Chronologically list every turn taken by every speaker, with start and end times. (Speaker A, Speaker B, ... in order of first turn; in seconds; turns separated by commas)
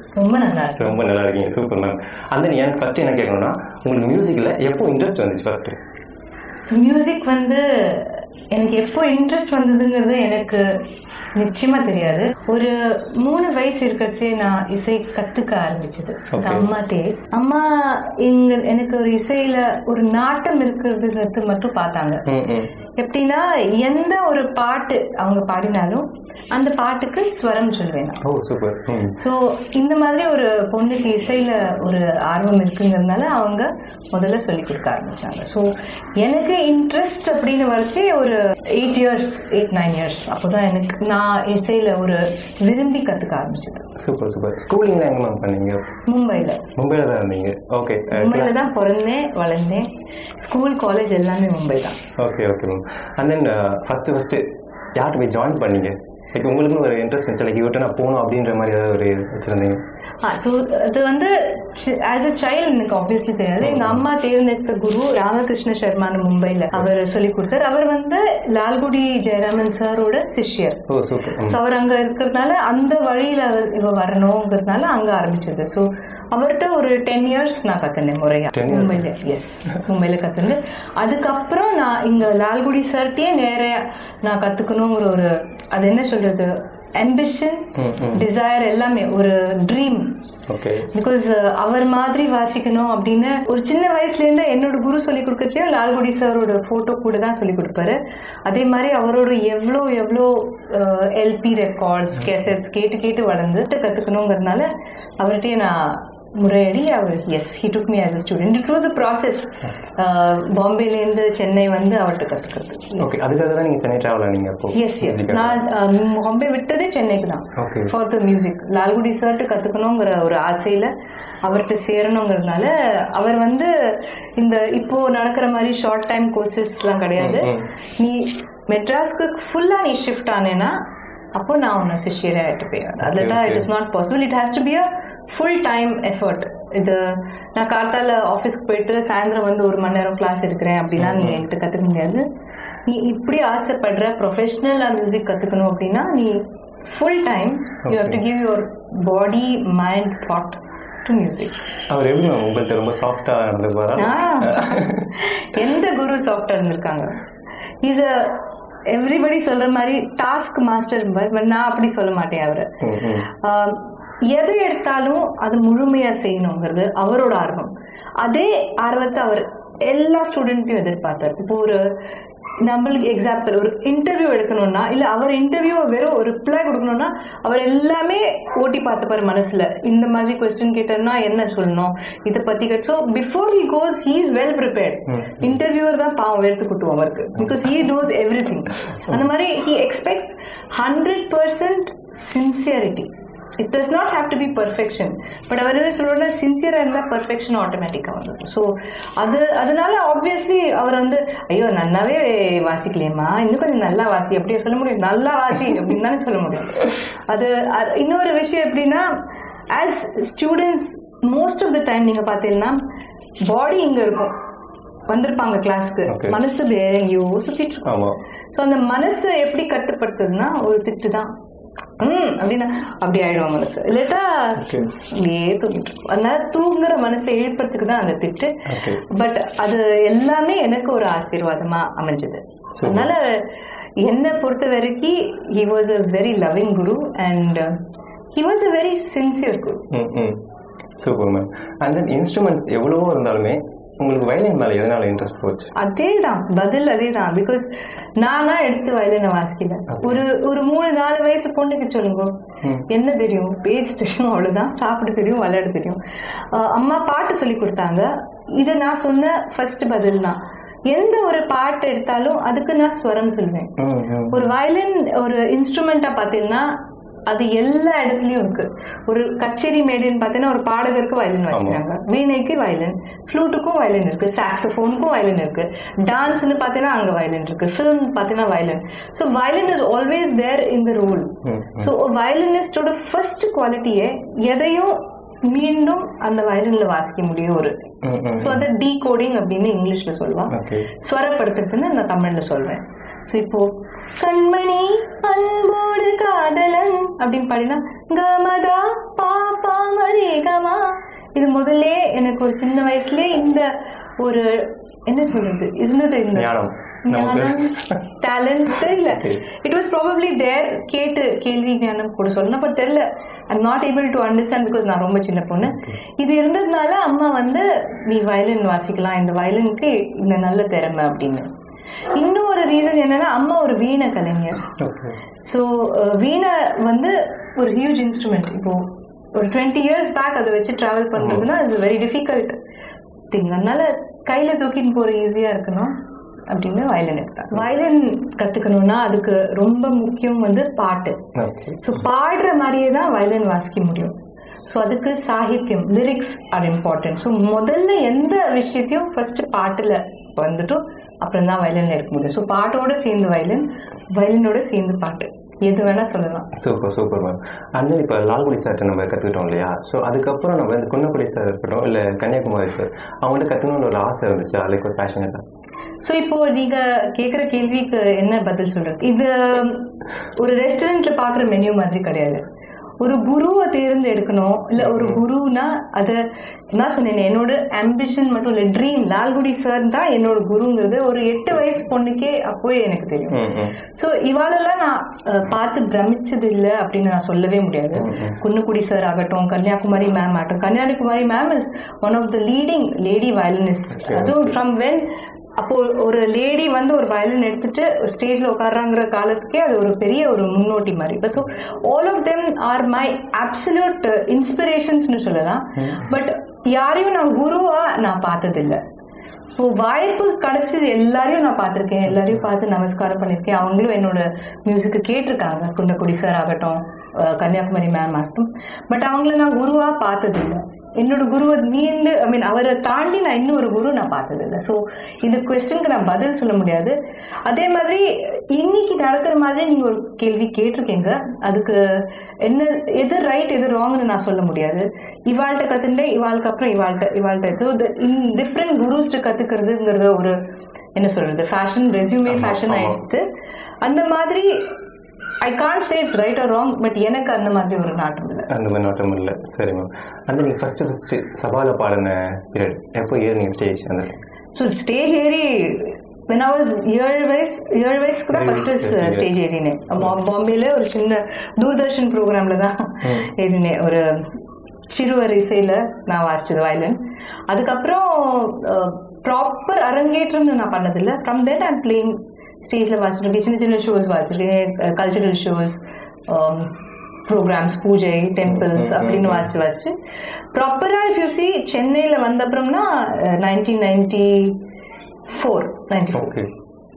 Speaker A: 0.1-1.0, Speaker B: 0.8-5.8, Speaker A: 6.6-10.7, Speaker A: 11.4-22.2, Speaker B: 16.3-16.7, Speaker B: 22.3-22.7, Speaker A: 23.0-28.2, Speaker B: 28.2-29.2, Speaker A: 29.2-43.9, Speaker B: 44.0-45.8, Speaker A: 46.1-46.6, Speaker B: 46.8-48.5, Speaker A: 48.1-49.9, Speaker A: 50.4-52.0, Speaker B: 52.2-54.4, Speaker B: 55.0-59.8, Speaker A: 60.2-70.8, Speaker B: 63.6-64.0, Speaker B: 70.9-71.6, Speaker A: 71.5-90.1, Speaker B: 78.5-79.1, Speaker B: 87.7-88.2, Speaker B: 90.5-90.9, Speaker A: 90.9-104.7, Speaker A: 105.2-113.2, Speaker B: 113.0-115.6, Speaker A: 114.7-120.9, Speaker B: 117.6-117.9, Speaker A: 121.4-130.7, Speaker B: 127.2-127.7, Speaker A: 131.3-142.2, Speaker B: 133.0-133.7, Speaker B: 141.0-141.4, Speaker A: 142.9-146.4, Speaker A: 146.9-151.5, Speaker B: 147.9-148.2, Speaker B: 151.9-155.2, Speaker A: 154.0-157.1, Speaker A: 157.8-162.7, Speaker B: 162.8-163.3, Speaker A: 163.3-167.7, Speaker A: 168.2-171.8, Speaker A: 172.6-193.1, Speaker B: 185.1-185.5, Speaker A: 193.6-209.1, Speaker A: 209.7-212.8, Speaker A: 213.5-214.3, Speaker A: 215.1-221.3, Speaker B: 216.1-216.4, Speaker B: 217.8-218.2, Speaker A: 222.0-233.4, Speaker B: 224.6-224.9, Speaker B: 228.7-229.0, Speaker B: 232.8-233.1, Speaker A: 234.0-237.7, Speaker A: 238.3-239.8, Speaker B: 239.9-240.4, Speaker B: 241.0-245.7, Speaker A: 245.8-247.7, Speaker A: 248.2-252.3, Speaker B: 249.9-250.2, Speaker A: 252.9-256.0, Speaker A: 256.5-258.1, Speaker A: 258.6-263.7, Speaker B: 263.8-264.4, Speaker A: 264.3-266.7, Speaker A: 267.3-293.7, Speaker B: 271.5-271.8, Speaker B: 281.4-281.9, Speaker B: 288.0-288.6, Speaker B: 290.5-290.9, Speaker A: 294.2-303.7, Speaker A: 304.2-306.5, Speaker B: 306.3-308.0, Speaker A: 307.1-321.5, Speaker B: 309.1-309.4, Speaker B: 315.7-315.9, Speaker A: 322.1-324.6, Speaker B: 324.8-325.2, Speaker A: 325.4-332.6, Speaker B: 331.1-331.5, Speaker A: 333.3-335.9, Speaker A: 336.5-341.2, Speaker B: 341.4-341.8, Speaker A: 341.8-344.1, Speaker A: 344.7-353.6, Speaker A: 354.1-356.5, Speaker B: 356.6-365.4, Speaker A: 366.0-372.4, Speaker A: 373.0-376.2, Speaker B: 374.8-375.2, Speaker A: 376.8-395.0, Speaker B: 383.3-383.8, Speaker B: 387.9-388.4, Speaker B: 394.0-394.4, Speaker A: 395.6-408.8, Speaker B: 405.8-406.1, Speaker A: 409.5-426.9, Speaker A: 427.5-440.3, Speaker A: 440.9-443.2, Speaker B: 442.3-443.0, Speaker A: 443.8-444.5, Speaker A: 445.4-448.5, Speaker B: 448.5-454.2, Speaker A: 454.5-464.0, Speaker B: 458.3-459.3, Speaker B: 463.0-463.3, Speaker A: 464.9-476.7, Speaker A: 477.3-479.9, Speaker B: 478.5-479.5, Speaker A: 480.5-484.6, Speaker A: 485.3-486.3, Speaker B: 486.1-486.5